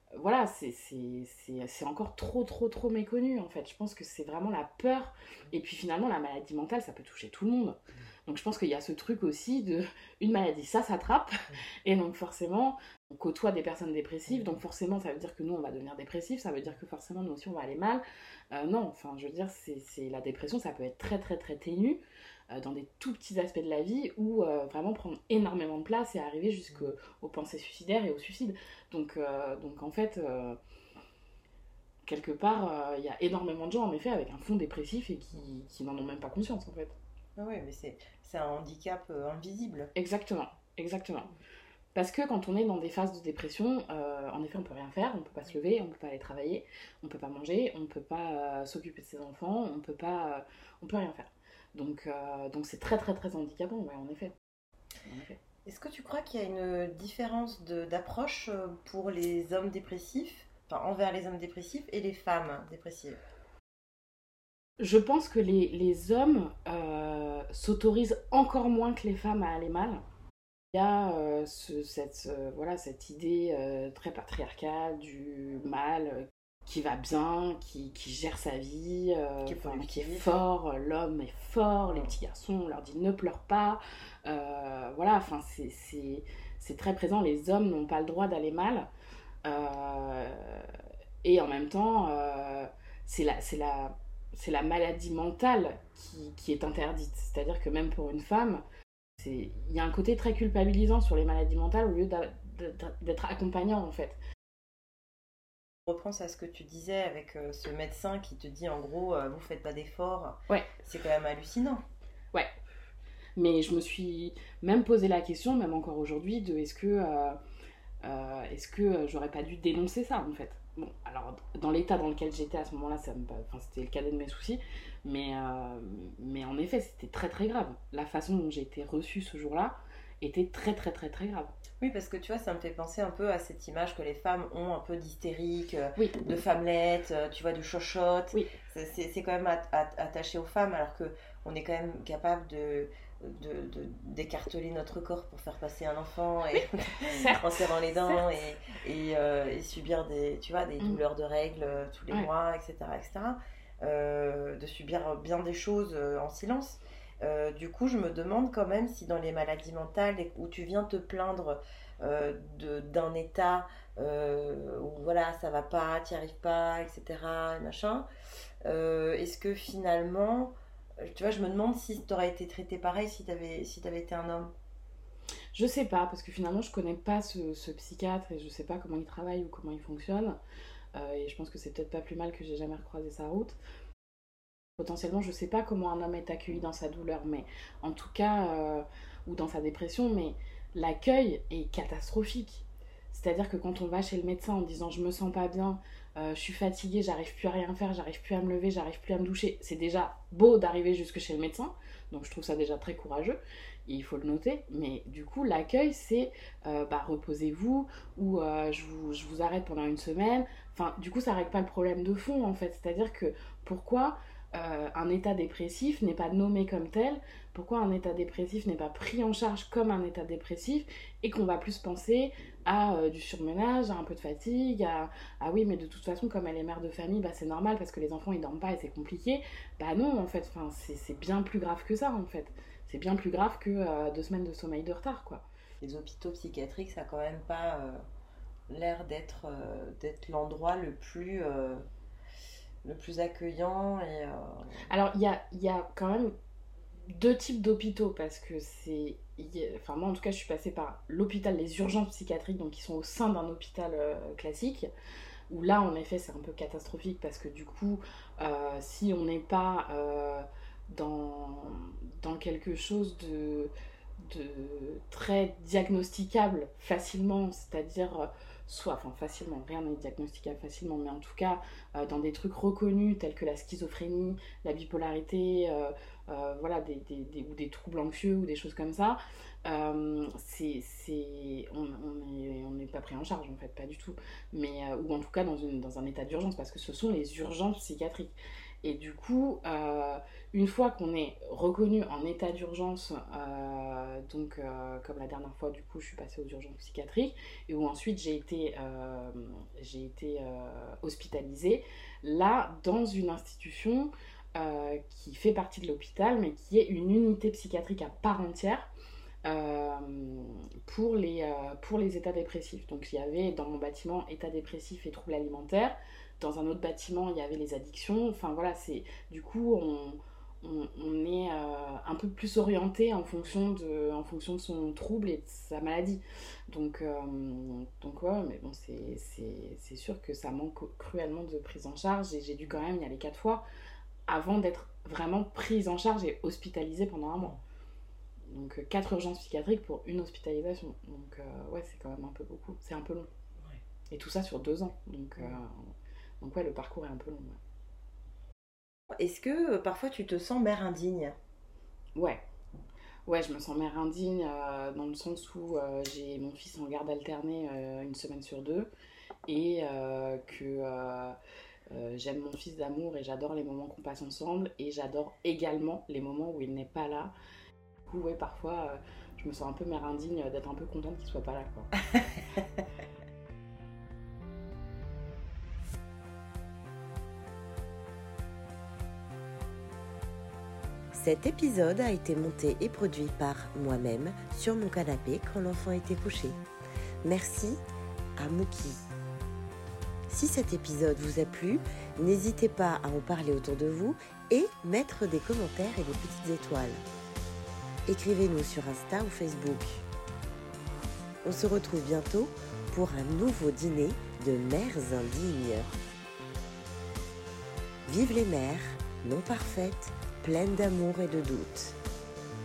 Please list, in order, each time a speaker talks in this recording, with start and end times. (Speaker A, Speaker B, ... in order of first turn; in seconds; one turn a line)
Speaker A: 0.1-30.6
Speaker A: 32.1-37.0
Speaker B: 37.4-39.9
Speaker A: 40.0-41.3
Speaker A: 42.0-54.4
Speaker A: 55.0-55.4
Speaker B: 55.6-63.2
Speaker A: 64.8-70.0
Speaker A: 70.7-88.9
Speaker B: 79.5-80.3
Speaker A: 89.5-90.7
Speaker A: 91.2-98.6
Speaker A: 99.2-104.2
Speaker B: 105.9-111.8
Speaker A: 113.4-117.4
Speaker A: 118.0-131.5
Speaker B: 131.8-168.1
Speaker A: 146.5-148.3
Speaker B: 168.6-174.5
Speaker A: 175.6-180.4
Speaker A: 180.9-183.6
Speaker A: 184.8-235.4
Speaker B: 235.8-238.0
Speaker B: 238.7-241.8
Speaker B: 242.8-244.8
Speaker A: 244.9-246.3
Speaker A: 247.1-254.9
Speaker A: 255.5-308.9
Speaker A: 309.4-333.6
Speaker A: 334.3-337.6
Speaker A: 338.5-343.3
Speaker A: 344.1-347.6
Speaker B: 349.1-351.4
Speaker A: 352.1-352.4
Speaker A: 353.3-358.9
Speaker A: 359.5-361.4
Speaker A: 361.9-367.3
Speaker A: 368.1-371.9
Speaker C: 381.1-386.6
Speaker C: 387.2-387.8
Speaker C: 388.4-389.1
Speaker C: 390.3-397.0
Speaker C: 398.1-400.0
Speaker C: 401.4-405.9
Speaker C: 408.1-412.0